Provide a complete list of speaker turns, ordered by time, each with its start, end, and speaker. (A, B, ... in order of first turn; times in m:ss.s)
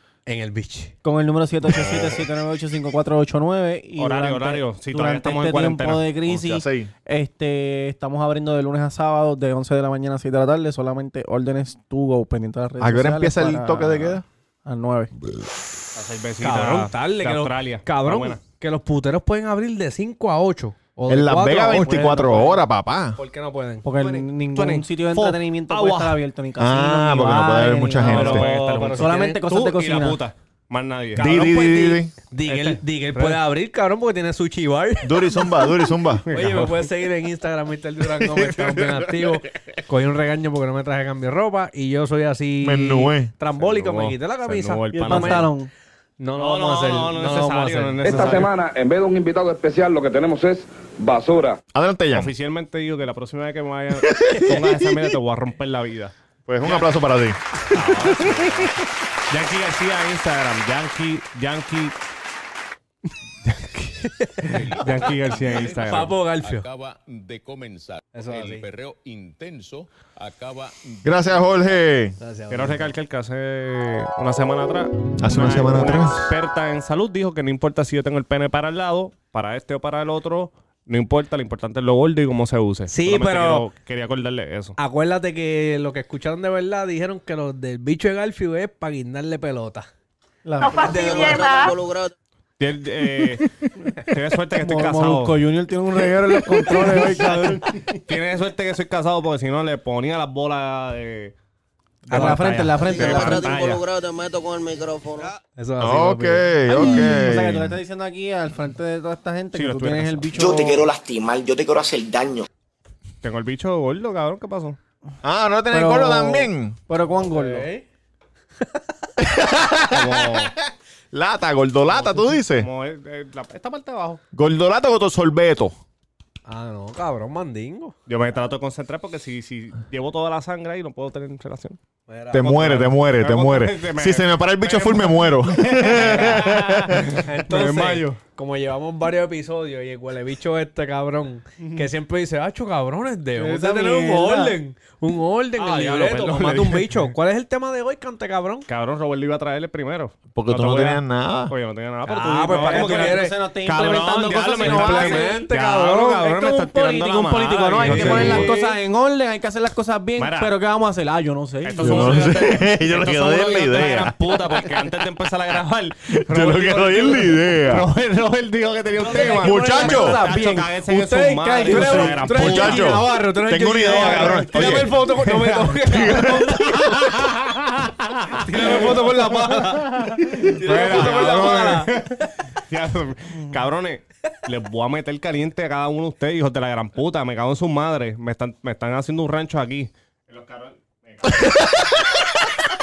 0:00.3-0:00.9 A
0:01.0-0:15.1 B
0:04.0-0:06.0 C
0:06.2-0:06.9 D
0:12.8-0:14.2 D
0:15.9-0:18.4 C
0:16.4-0:22.6 A
0:21.1-0:23.2 D
0:23.2-0:23.8 A
0:23.8-0:30.2 B
0:24.0-0:26.2 C
0:26.6-0:28.4 D
0:28.0-0:33.4 C
0:28.0-0:29.3 A
0:31.1-0:32.1 D
0:32.3-0:45.5 A
0:35.0-0:36.2 D
0:36.3-0:36.8 C
0:38.1-0:39.5 D
0:42.6-0:43.3 D
0:43.5-0:45.5 C
0:44.9-0:45.7 B
0:46.2-0:48.5 A
0:46.4-0:48.5 C
0:48.0-0:51.6 E
0:51.7-0:52.3 D
0:52.1-0:56.9 C
0:54.1-0:54.8 D
0:56.5-0:57.4 D
0:57.6-1:02.0 C
1:03.4-1:03.9 C
1:04.0-1:05.0 A
1:04.4-1:11.6 F
1:04.5-1:06.2 C
1:05.8-1:06.6 A
1:08.1-1:08.6 A
1:11.0-1:12.2 D
1:12.2-1:12.9 A
1:12.5-1:24.8 C
1:15.2-1:16.3 D
1:22.9-1:23.7 A
1:24.8-1:29.9 A
1:30.4-1:31.4 B
1:30.8-1:32.1 G
1:30.9-1:31.6 A
1:32.6-1:33.5 C
1:34.0-1:35.4 C
1:34.6-1:38.0 B
1:38.1-1:41.3 C
1:42.1-1:43.8 C
1:42.1-1:42.7 A
1:42.1-1:43.5 B
1:43.0-1:45.3 G
1:45.4-1:46.5 A
1:45.8-1:47.8 D
1:46.7-1:50.9 B
1:49.5-1:50.4 C
1:50.3-1:52.5 H
1:53.2-1:54.8 C
1:55.2-1:56.8 D
1:55.7-1:57.7 B
1:57.2-1:57.8 A
1:59.2-2:02.7 D
1:59.9-2:00.5 C
2:02.6-2:04.2 C
2:04.3-2:05.8 D
2:06.4-2:07.9 A
2:08.1-2:11.8 C
2:12.1-2:12.5 A
2:12.3-2:17.2 D
2:12.4-2:18.2 C
2:15.9-2:16.4 A
2:17.2-2:28.7 A
2:23.4-2:24.6 B
2:25.6-2:27.1 C
2:28.7-2:38.5 C
2:30.3-2:31.5 D
2:32.0-2:33.4 A
2:32.4-2:42.6 B
2:34.6-2:35.8 A
2:37.8-2:38.8 A
2:40.2-2:40.5 C
2:41.6-2:53.0 C
2:41.8-2:44.3 D
2:46.1-2:47.9 D
2:49.0-2:56.8 A
2:49.0-2:49.4 B
2:49.4-2:50.2 D
2:50.0-2:50.3 B
2:51.6-2:52.1 B
2:52.2-2:54.9 D
2:53.8-3:11.5 C
2:55.8-2:57.1 D
2:58.3-3:02.2 A
3:11.3-3:12.0 D